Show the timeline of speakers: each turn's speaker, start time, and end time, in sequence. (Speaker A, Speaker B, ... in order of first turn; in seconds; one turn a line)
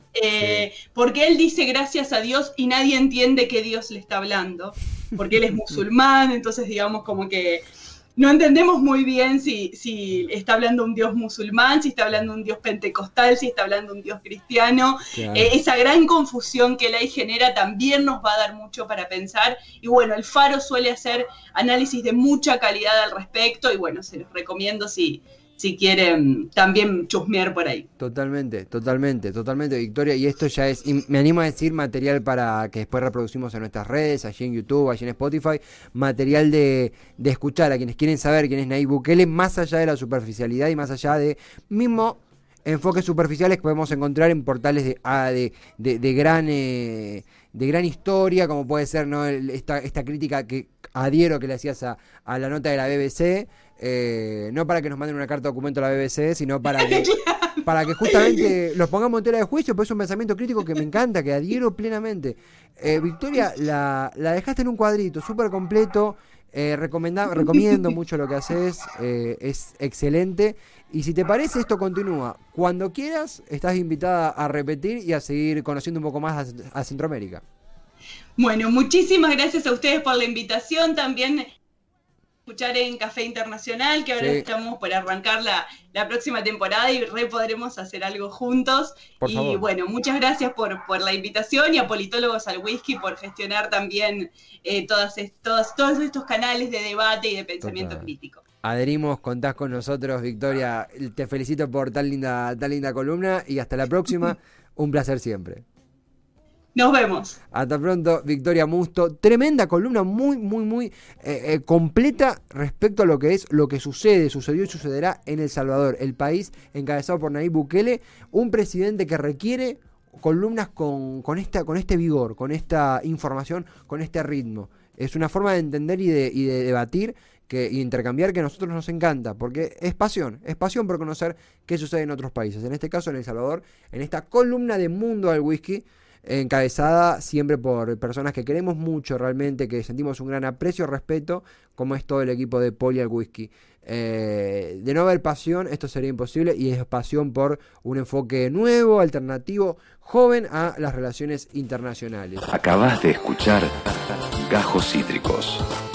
Speaker A: 0.1-27.9
Speaker B: 0.3-0.7
Speaker B: 15.1-15.5
Speaker B: 28.0-77.4
Speaker A: 56.8-58.5
Speaker A: 78.4-81.5
Speaker A: 82.5-98.4
Speaker B: 84.2-84.5
Speaker B: 89.2-89.7
Speaker B: 97.6-98.1
Speaker B: 98.6-105.7
Speaker A: 106.8-107.4
Speaker B: 107.5-152.5
Speaker C: 152.5-155.7